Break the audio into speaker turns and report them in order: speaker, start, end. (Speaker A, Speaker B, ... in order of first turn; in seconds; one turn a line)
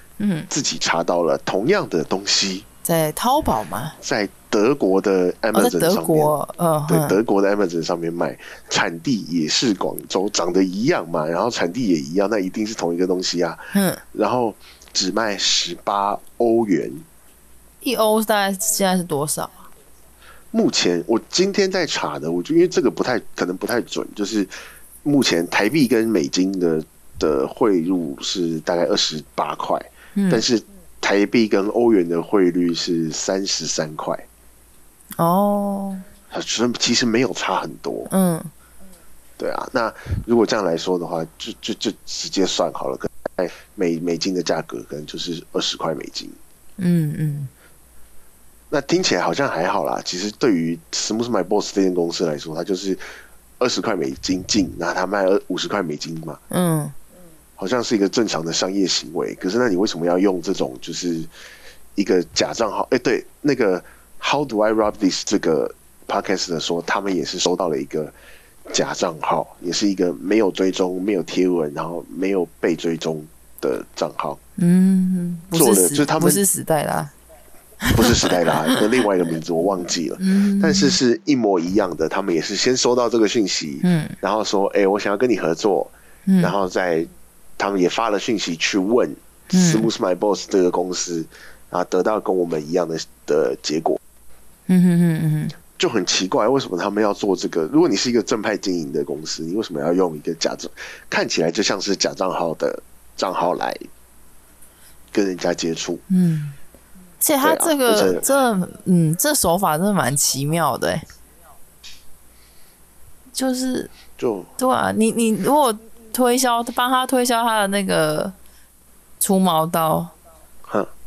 Speaker A: 0.2-0.5
Speaker B: 0.5-2.7
Speaker A: 2.8-4.0
Speaker B: 4.0-6.4
Speaker A: 5.5-7.2
Speaker B: 6.9-17.1
Speaker A: 13.7-14.0
Speaker A: 17.8-19.6
Speaker B: 20.5-24.5
Speaker B: 25.0-34.3
Speaker A: 30.1-30.4
Speaker A: 35.2-36.0
Speaker B: 36.3-38.1
Speaker A: 38.1-38.5
Speaker B: 39.4-46.4
Speaker A: 46.8-47.5
Speaker B: 48.7-53.0
Speaker B: 53.6-56.4
Speaker A: 56.5-57.0
Speaker B: 57.6-61.3
Speaker B: 62.0-68.1
Speaker B: 68.7-74.4
Speaker A: 74.6-77.1
Speaker B: 75.5-76.4
Speaker A: 77.8-78.8
Speaker B: 77.9-94.0
Speaker A: 80.2-81.0
Speaker A: 83.8-84.2
Speaker A: 86.3-86.5
Speaker A: 89.5-89.9
Speaker A: 94.7-95.6
Speaker B: 95.8-103.9
Speaker B: 105.1-106.0
Speaker A: 106.1-106.6
Speaker A: 107.2-111.0
Speaker B: 107.4-108.2
Speaker A: 113.3-113.9
Speaker B: 114.2-114.5
Speaker A: 114.6-118.3
Speaker A: 119.2-120.1